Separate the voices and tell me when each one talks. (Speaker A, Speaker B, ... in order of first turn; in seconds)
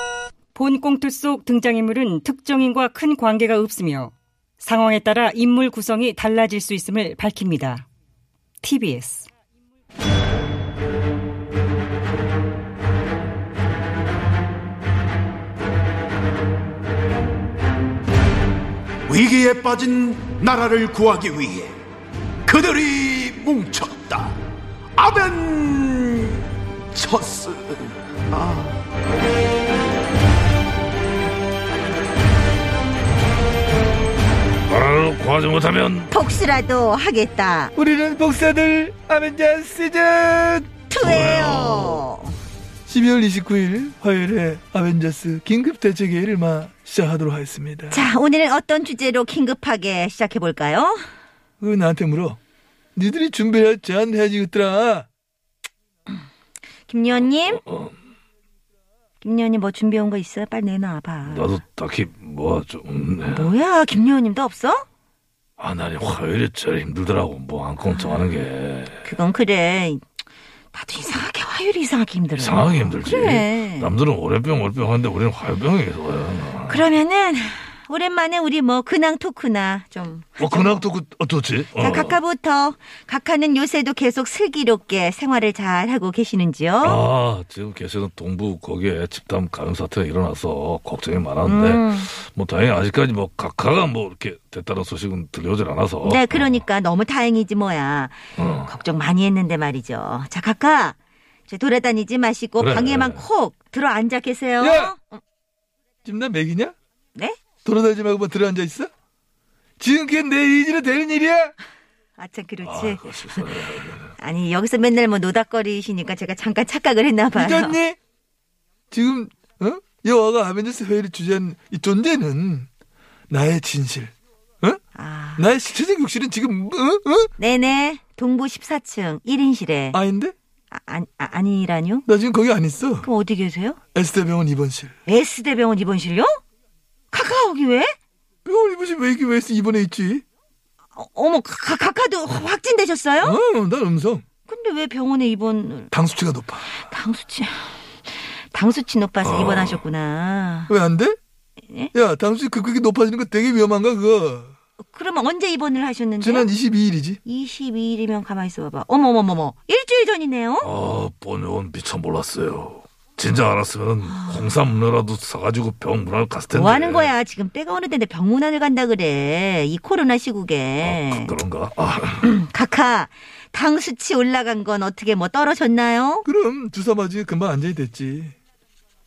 Speaker A: 0.6-7.9, 8.6-9.3
Speaker B: 19.1-21.8, 22.4-24.4, 25.0-28.7
Speaker C: 34.7-36.1, 41.0-42.1, 57.6-57.9, 61.3-63.5, 65.6-69.1, 72.4-76.8, 80.4-82.2, 86.8-96.6, 98.4-98.7, 102.6-103.2, 112.6-114.1, 149.2-149.8, 160.6-167.1, 170.8-172.3
Speaker D: 36.1-37.7, 40.9-42.3, 47.9-51.0, 56.9-57.6, 59.2-61.6, 63.3-64.9, 67.8-68.3, 69.0-70.0, 70.7-73.9, 76.7-80.9, 81.8-87.0, 91.5-92.1, 96.0-101.0, 101.5-105.2, 112.2-113.6, 114.2-117.8, 125.0-125.5, 127.4-130.0, 130.7-132.1, 133.0-133.8, 135.1-136.4, 137.1-137.9, 140.9-143.4, 144.5-145.9, 146.7-150.7, 154.8-156.5, 157.2-160.7, 164.1-164.6, 166.5-171.3, 172.2-176.3
Speaker E: 37.8-40.7, 42.9-48.1, 51.6-52.4, 53.0-55.1, 104.6-104.9, 106.0-106.8, 107.7-108.9, 109.8-111.5, 117.3-118.0, 118.9-122.7, 123.3-124.8, 125.4-127.3, 129.9-130.3, 132.1-133.1, 133.9-134.9, 138.4-140.2, 143.2-144.2, 145.9-146.7, 150.7-151.2, 151.9-154.5, 156.2-157.2, 176.2-178.3